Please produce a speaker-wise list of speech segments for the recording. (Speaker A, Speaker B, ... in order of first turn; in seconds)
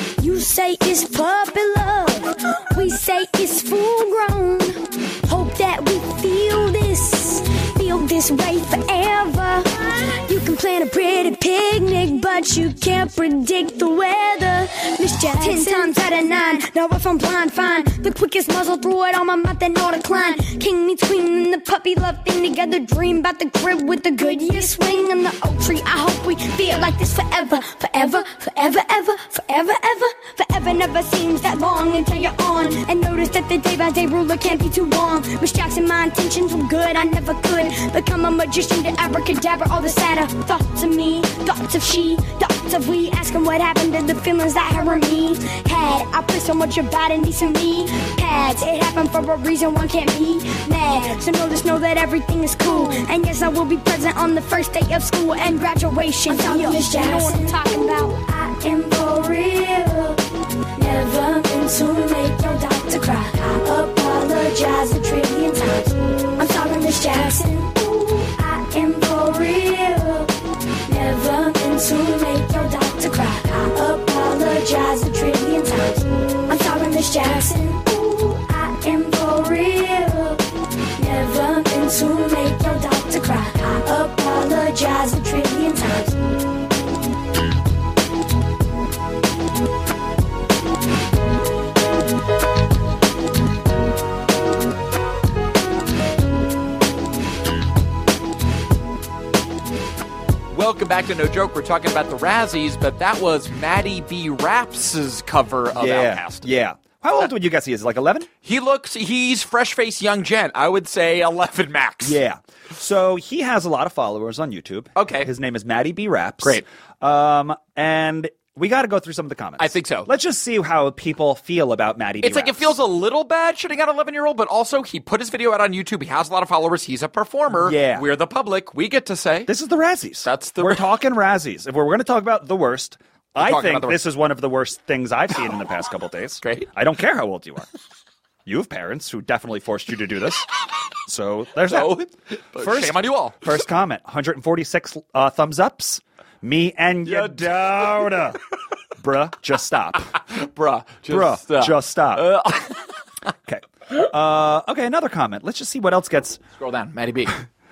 Speaker A: 0.2-60.2, 60.7-70.3, 70.8-80.4, 81.0-86.2
Speaker B: 100.5-106.5, 108.4-112.2, 115.0-115.3, 119.6-120.1, 122.2-129.5, 130.2-130.8, 133.4-134.0, 136.4-136.7, 141.7-143.5, 147.0-148.2, 150.2-152.9, 156.6-157.4
Speaker C: 105.7-108.3, 112.0-122.7, 127.5-128.1, 129.5-137.7, 138.4-140.5, 141.1-142.0, 142.6-148.4, 149.0-150.2, 151.1-152.3, 153.4-156.4